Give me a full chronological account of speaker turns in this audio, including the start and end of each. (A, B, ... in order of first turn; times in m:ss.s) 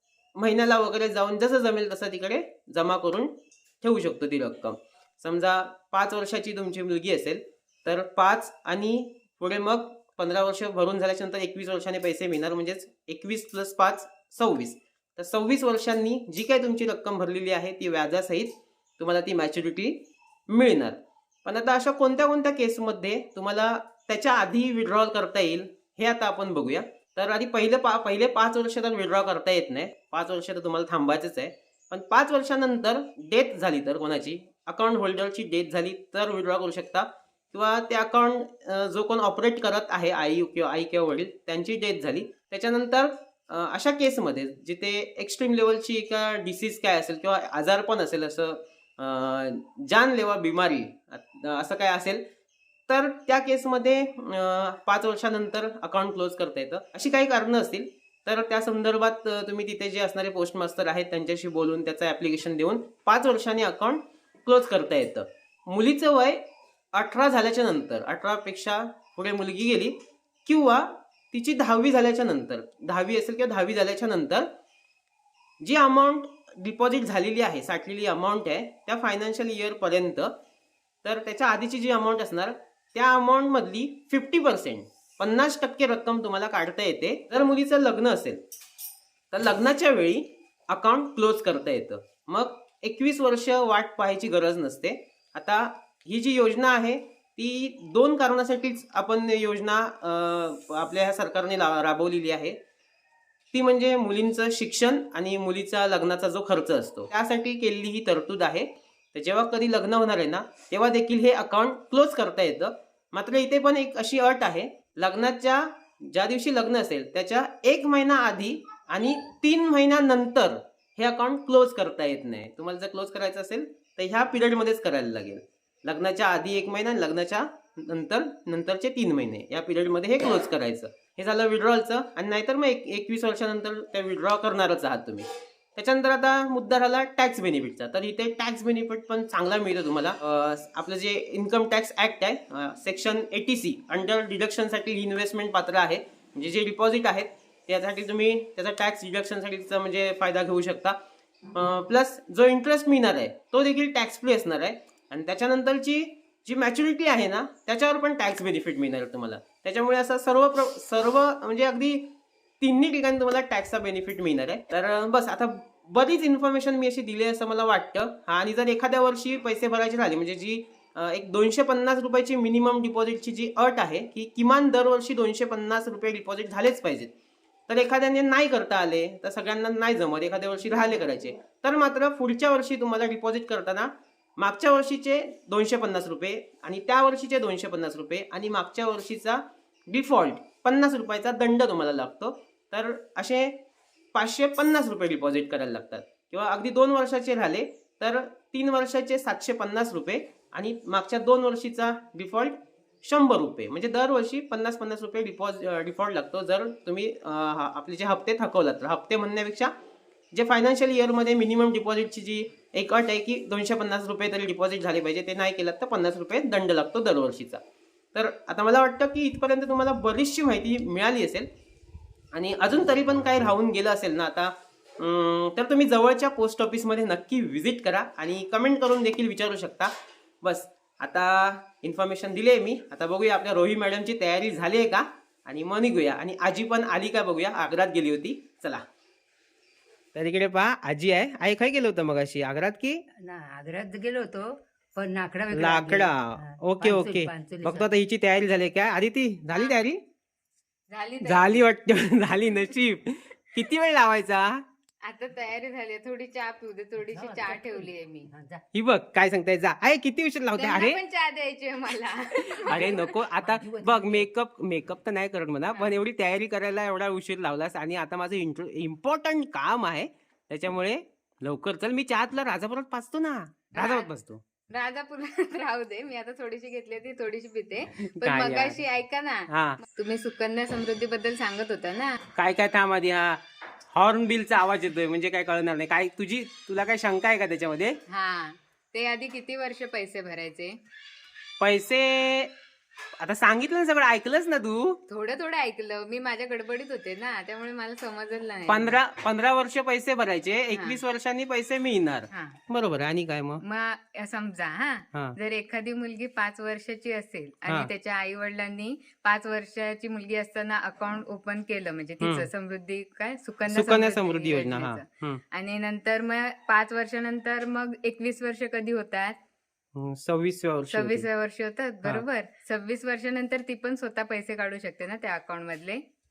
0:00.4-0:52.2 A
0:52.9-1:06.4 A
1:06.9-1:14.5 A
1:15.6-1:20.3 A
1:21.0-1:28.4 A
1:29.3-1:42.6 A
1:43.5-2:31.0 A
2:31.5-2:42.1 A
2:42.6-2:57.1 A
2:57.7-3:13.6 A
3:14.1-3:29.7 A
3:30.3-3:37.6 A
3:38.1-3:41.5 A
3:42.3-3:58.8 A
4:00.2-4:03.0 A
4:03.2-4:07.9 B
4:05.5-4:10.0 A
4:09.5-4:09.8 C
4:10.9-4:11.6 C
4:11.2-4:14.6 A
4:15.0-4:18.3 C
4:17.0-4:18.6 B
4:18.7-4:21.0 A
4:20.6-4:23.3 C
4:22.6-4:34.4 A
4:22.7-4:24.3 B
4:33.8-4:34.1 C
4:34.7-4:42.2 C
4:38.2-4:38.8 A
4:39.5-4:39.8 A
4:42.4-4:43.4 A
4:43.9-4:48.0 A
4:48.1-4:50.8 C
4:51.6-4:52.5 A
4:53.2-4:55.0 A
4:55.1-4:59.0 C
4:58.7-5:03.6 A
5:00.7-5:01.0 C
5:02.3-5:02.6 C
5:03.6-5:19.4 C
5:12.2-5:12.5 A
5:13.7-5:15.4 A
5:20.0-5:21.3 A
5:20.9-5:26.0 C